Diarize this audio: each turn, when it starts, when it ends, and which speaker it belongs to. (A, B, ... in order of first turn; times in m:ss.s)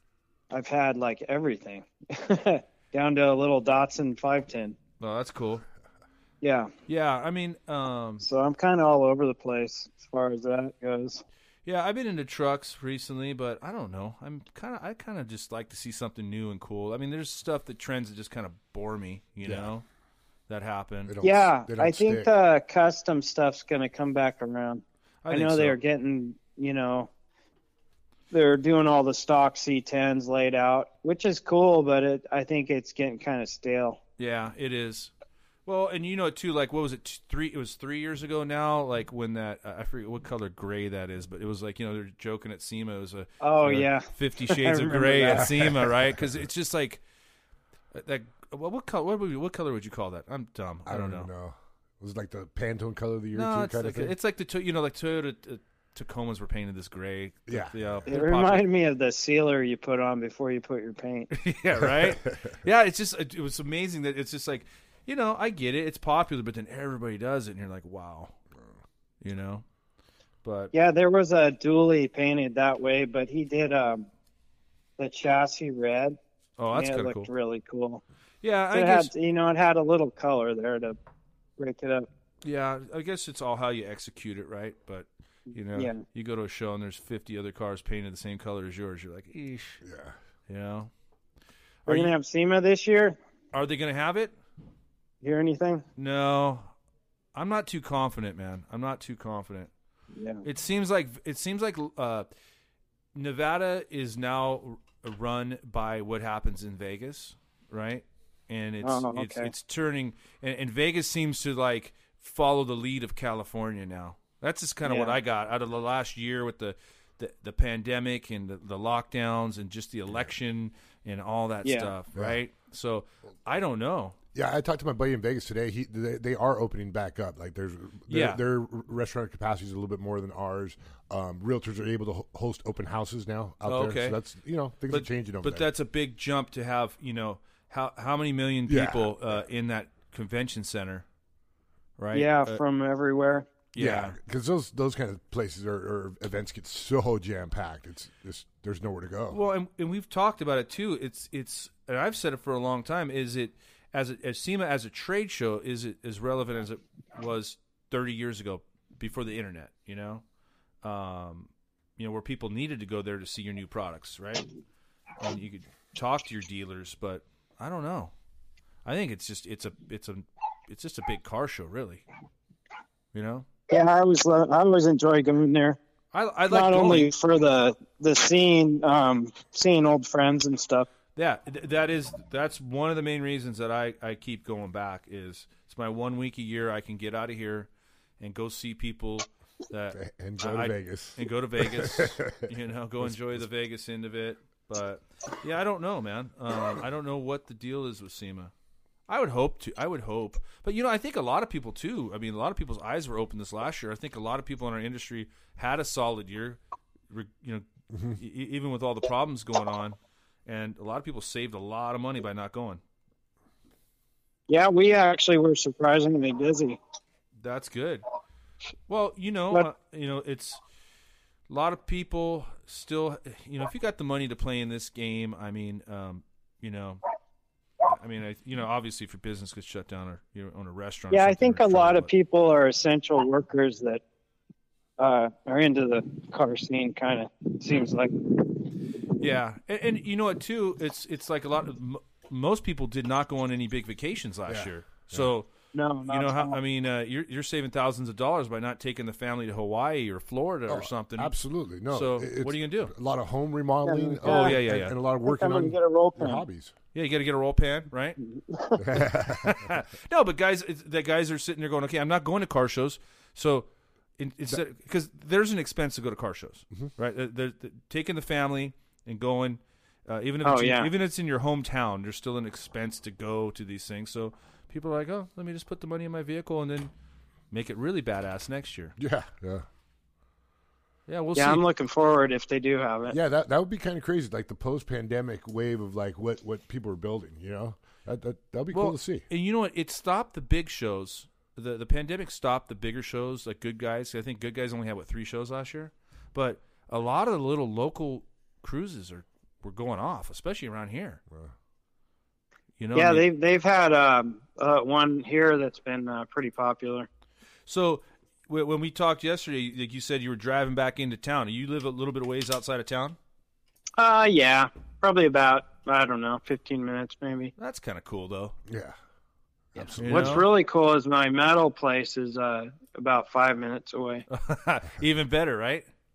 0:00.5-0:04.8 A
0:05.0-0:05.6 B
0:06.4-0:06.7 A
0:06.9-0:08.2 B
0:08.2-0:11.2 A
0:11.6-0:19.8 B
0:20.5-0:21.1 B
0:21.1-0:22.3 C
0:21.2-0:27.1 A
0:25.2-0:25.8 B
0:28.3-0:34.0 A
0:34.2-0:35.1 B
0:35.6-0:47.0 B
0:43.4-0:45.5 A
0:45.3-0:46.4 C
0:47.9-0:51.3 B
0:50.8-0:54.1 C
0:53.3-0:58.6 B
0:57.5-0:58.1 C
0:58.1-1:01.3 A
1:01.3-1:08.3 B
1:09.2-1:09.6 B
1:10.4-1:10.7 B
1:10.7-1:14.1 A
1:15.0-1:16.2 A
1:16.6-1:17.3 B
1:16.7-1:18.0 A
1:18.4-1:19.1 B
1:18.7-1:21.0 A
1:21.6-1:22.1 A
1:22.4-1:29.8 B
1:25.7-1:26.0 A
1:29.8-1:30.1 C
1:30.5-1:30.9 B
1:31.8-1:32.1 B
1:31.9-1:33.2 A
1:33.5-1:34.3 B
1:35.2-1:35.8 A
1:36.0-1:36.7 B
1:37.3-1:39.7 B
1:40.1-1:40.4 A
1:40.4-1:42.2 B
1:43.1-2:04.2 B
1:48.8-1:49.5 A
1:54.8-1:55.2 A
2:01.6-2:01.9 A
2:04.3-2:15.6 C
2:08.1-2:08.4 B
2:13.6-2:14.2 B
2:14.9-2:21.0 B
2:18.7-2:19.4 C
2:22.0-2:22.6 B
2:22.1-2:23.5 A
2:23.7-2:24.2 B
2:23.8-2:29.4 C
2:29.3-2:40.2 B
2:40.8-2:44.5 B
2:45.2-2:48.1 B
2:48.8-2:52.0 B
2:53.1-2:53.4 B
2:53.7-2:55.8 A
2:56.1-2:57.1 B
2:56.5-3:00.9 A
3:01.2-3:07.7 B
3:08.2-3:18.5 B
3:09.9-3:13.4 C
3:19.1-3:26.6 B
3:27.1-3:32.8 B
3:34.5-3:36.8 A
3:37.4-3:38.0 B
3:38.9-3:40.6 B
3:41.5-3:47.0 B
3:47.8-3:52.1 B
3:51.1-3:54.0 A
3:55.0-3:58.7 A
3:59.2-4:05.5 B
4:04.5-4:05.3 C
4:05.7-4:06.6 A
4:06.1-4:11.3 B
4:10.7-4:16.7 C
4:11.9-4:12.9 B
4:13.8-4:14.6 A
4:14.2-4:15.0 B
4:15.2-4:16.4 A
4:16.9-4:18.2 B
4:18.2-4:18.9 A
4:18.8-4:19.7 C
4:18.9-4:36.9 B
4:30.4-4:30.9 A
4:37.5-4:38.9 B
4:39.0-4:39.6 C
4:41.1-4:41.6 B
4:41.4-4:43.2 A
4:43.1-4:49.2 C
4:48.7-5:01.2 B
5:02.8-5:03.2 B
5:02.9-5:07.1 A
5:07.6-5:13.2 B
5:14.0-5:17.5 A
5:17.6-5:18.5 B
5:18.7-5:18.9 C
5:19.7-5:20.4 C
5:19.8-5:24.2 A
5:20.0-5:20.5 B
5:24.3-5:25.9 B